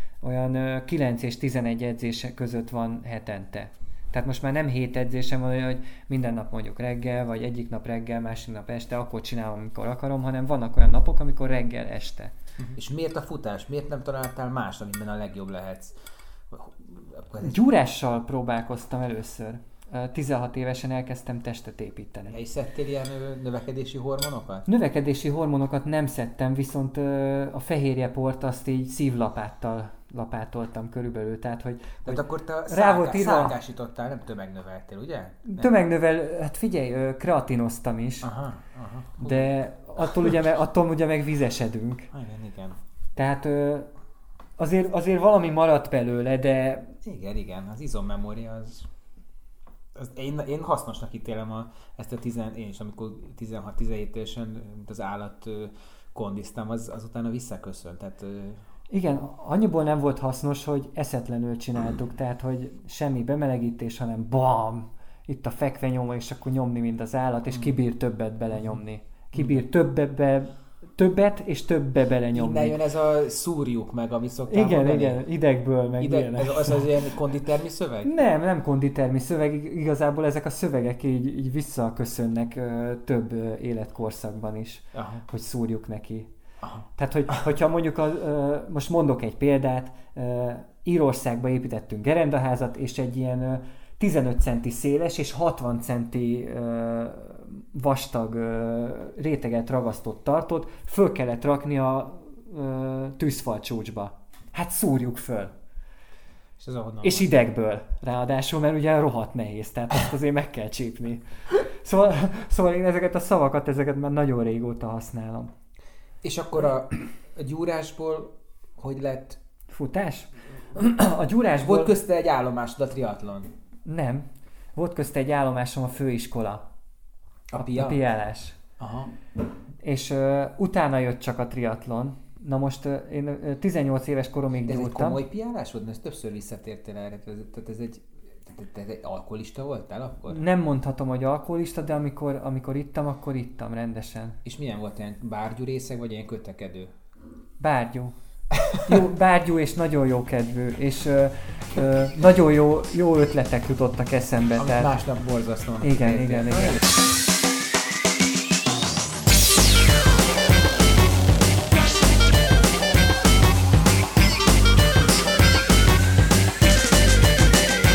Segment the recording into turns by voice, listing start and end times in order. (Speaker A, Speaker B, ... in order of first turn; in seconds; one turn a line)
Speaker A: 0.2-12.3
Speaker B: 12.6-15.9
Speaker B: 16.5-17.6
Speaker A: 17.4-22.4
Speaker B: 22.3-24.7
Speaker A: 24.7-33.5
Speaker B: 32.0-35.7
Speaker A: 35.4-38.3
Speaker B: 38.2-39.5
Speaker A: 39.2-42.1
Speaker B: 42.1-42.8
Speaker A: 43.1-43.9
Speaker A: 44.6-47.0
Speaker B: 47.0-48.9
Speaker B: 49.9-58.6
Speaker A: 58.9-72.8
Speaker B: 67.5-67.8
Speaker B: 68.5-68.8
Speaker B: 69.3-69.6
Speaker B: 72.3-75.2
Speaker A: 74.5-77.0
Speaker B: 76.0-78.1
Speaker A: 78.0-86.3
Speaker B: 84.9-85.2
Speaker A: 87.0-105.5
Speaker B: 106.6-107.3
Speaker A: 107.0-115.5
Speaker B: 116.2-119.4
Speaker A: 119.7-121.9
Speaker B: 121.5-123.5
Speaker A: 123.8-126.6
Speaker B: 127.5-128.0
Speaker A: 127.6-128.6
Speaker B: 128.8-129.1
Speaker A: 129.8-135.2
Speaker B: 134.7-140.4
Speaker A: 140.3-144.4
Speaker B: 144.4-146.9
Speaker A: 147.6-148.1
Speaker A: 148.8-154.9
Speaker B: 154.6-156.9
Speaker A: 155.8-156.9